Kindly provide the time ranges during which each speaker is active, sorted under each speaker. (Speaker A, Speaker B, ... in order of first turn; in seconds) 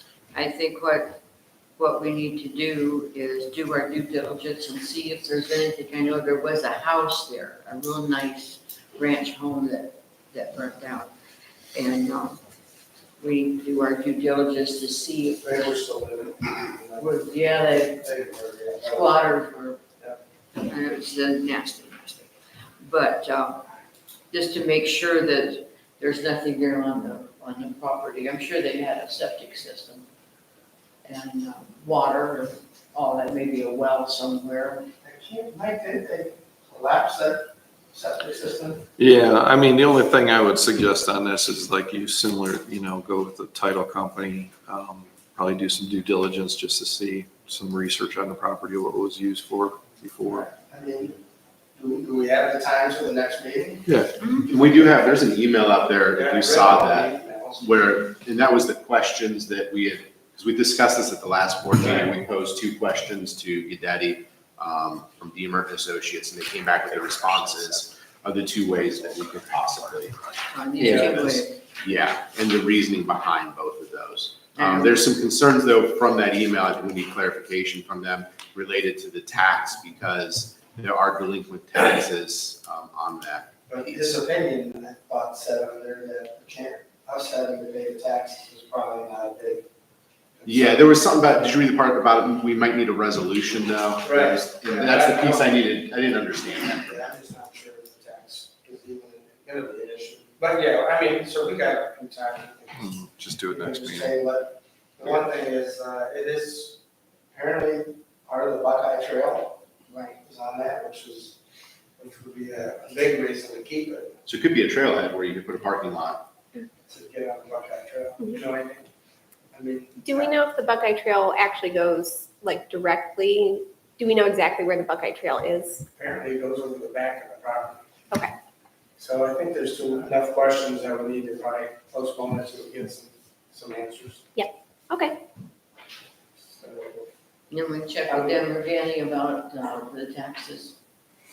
Speaker A: 0.3-1.2, 1.8-11.1, 11.7-12.4, 13.2-15.6, 17.0-18.1, 18.9-19.8, 20.5-23.7, 24.3-30.1, 31.0-34.9, 70.5-71.6, 74.6-75.1, 109.9-110.2, 137.5-140.8
Speaker B: 15.4-17.2, 17.8-19.2, 35.0-38.9, 50.3-51.2, 51.8-55.2, 56.1-58.0, 61.8-62.1, 67.3-67.9, 83.7-89.7, 90.4-91.0, 94.0-95.8, 96.6-103.0, 103.5-106.8, 107.3-109.6, 110.2-111.4, 112.0-114.2, 116.9-118.9, 119.5-120.3, 126.0-127.8, 129.0-134.3, 136.5-137.1, 138.1-138.4
Speaker C: 39.0-50.5, 53.9-54.1, 70.8-71.2, 102.8-104.2
Speaker D: 54.5-84.2, 90.5-97.0, 114.3-116.2
Speaker E: 120.0-125.8, 134.4-135.2